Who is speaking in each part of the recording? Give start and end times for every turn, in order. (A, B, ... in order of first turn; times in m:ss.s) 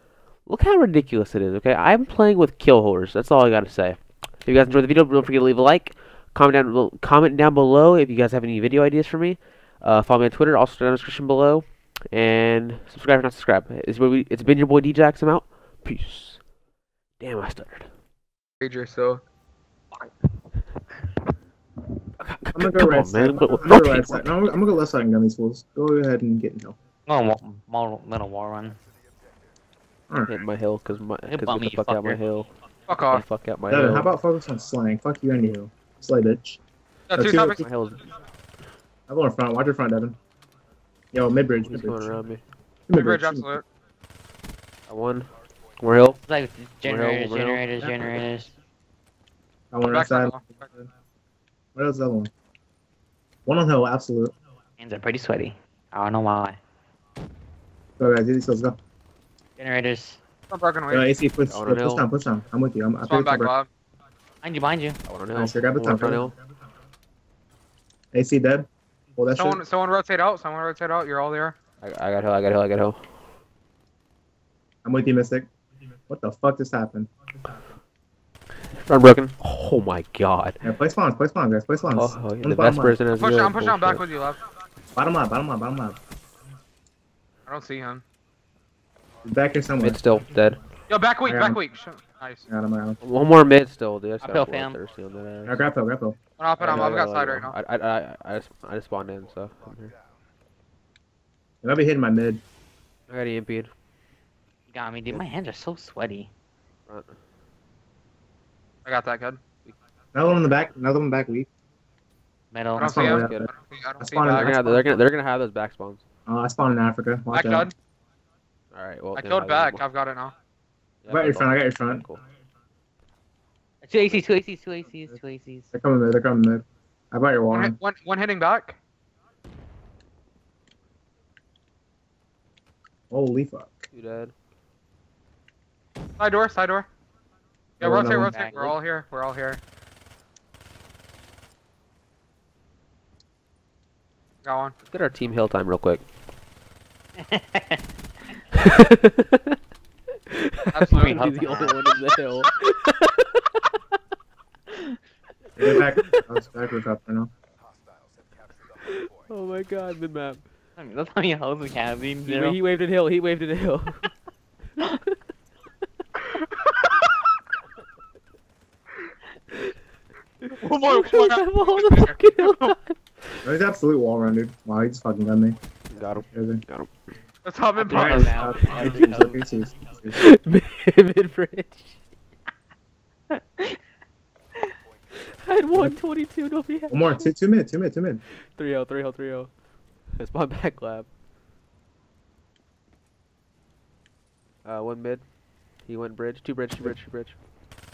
0:00.4-0:16.4 A
0:17.2-0:17.9 A
0:18.6-0:19.2 B
0:22.2-0:24.4 A
0:22.5-0:26.8 C
0:27.1-0:28.8 D
0:30.1-0:30.4 C
0:30.3-0:32.5 A
0:31.3-0:32.2 D
0:32.9-0:33.2 B
0:33.1-0:34.1 A
0:33.7-0:36.6 C
0:37.1-0:37.6 B
0:37.1-0:37.6 C
0:37.6-0:38.1 A
0:39.1-0:40.2 C
0:41.1-0:42.1 C
0:41.6-0:42.4 A
0:42.9-0:43.5 C
0:42.9-0:43.6 B
0:44.9-0:46.2 A
0:46.2-0:48.5 D
0:46.8-0:47.6 A
0:49.7-0:50.9 C
0:49.8-0:50.6 B
0:51.7-0:52.3 C
0:53.4-0:54.3 C
0:54.8-0:56.6 D
0:58.0-0:58.8 C
0:59.6-1:00.2 D
1:00.5-1:01.1 B
1:00.9-1:03.5 C
1:01.5-1:02.1 A
1:03.0-1:03.7 B
1:04.4-1:05.0 D
1:05.1-1:06.3 A
1:05.3-1:06.2 C
1:08.1-1:09.6 C
1:09.3-1:11.5 B
1:11.8-1:13.0 A
1:14.8-1:15.5 C
1:16.1-1:17.1 C
1:18.8-1:20.6 A
1:20.6-1:23.0 C
1:21.9-1:24.0 A
1:23.1-1:24.4 B
1:24.9-1:26.0 C
1:27.5-1:28.0 B
1:29.2-1:30.0 C
1:29.8-1:30.6 A
1:30.9-1:32.4 B
1:31.2-1:31.6 C
1:32.5-1:33.0 C
1:33.0-1:35.6 A
1:34.2-1:34.8 D
1:35.4-1:36.2 C
1:36.4-1:37.6 B
1:36.6-1:39.9 A
1:36.7-1:37.0 C
1:41.6-1:42.4 C
1:43.1-1:43.7 A
1:44.7-1:46.3 D
1:46.9-1:47.1 A
1:48.8-1:49.4 B
1:50.1-1:51.5 C
1:52.5-1:52.9 D
1:52.8-1:54.8 C
1:52.8-1:53.5 A
1:52.8-1:54.9 B
1:54.2-1:56.0 A
1:56.2-1:57.7 C
1:57.3-1:57.7 B
1:58.7-1:59.8 A
1:59.1-2:00.3 B
2:01.0-2:02.2 A
2:01.1-2:02.0 C
2:03.8-2:05.7 D
2:05.7-2:07.8 C
2:07.5-2:08.8 B
2:13.1-2:13.9 C
2:13.9-2:14.3 A
2:16.2-2:16.9 B
2:17.8-2:18.4 C
2:17.8-2:19.6 B
2:18.2-2:18.7 D
2:24.4-2:24.7 B
2:24.9-2:26.0 A
2:27.2-2:27.8 D
2:28.5-2:29.6 A
2:30.3-2:33.7 A
2:30.7-2:31.3 B
2:31.0-2:31.9 D
2:35.6-2:37.3 C
2:35.6-2:36.2 A
2:38.8-2:40.4 A
2:40.8-2:42.6 D
2:42.2-2:44.1 A
2:50.5-2:53.0 A
2:50.5-2:52.7 B
2:53.4-2:55.6 C
2:55.9-2:56.9 A
2:56.3-2:56.6 C
2:57.4-2:58.4 B
2:57.8-2:59.5 D
2:57.9-3:00.2 C
2:58.8-2:59.1 A
3:00.1-3:02.0 A
3:03.3-3:03.8 D
3:05.2-3:07.3 A
3:06.9-3:08.2 C
3:08.5-3:09.5 A
3:10.2-3:11.1 A
3:14.6-3:15.2 A
3:15.8-3:17.4 A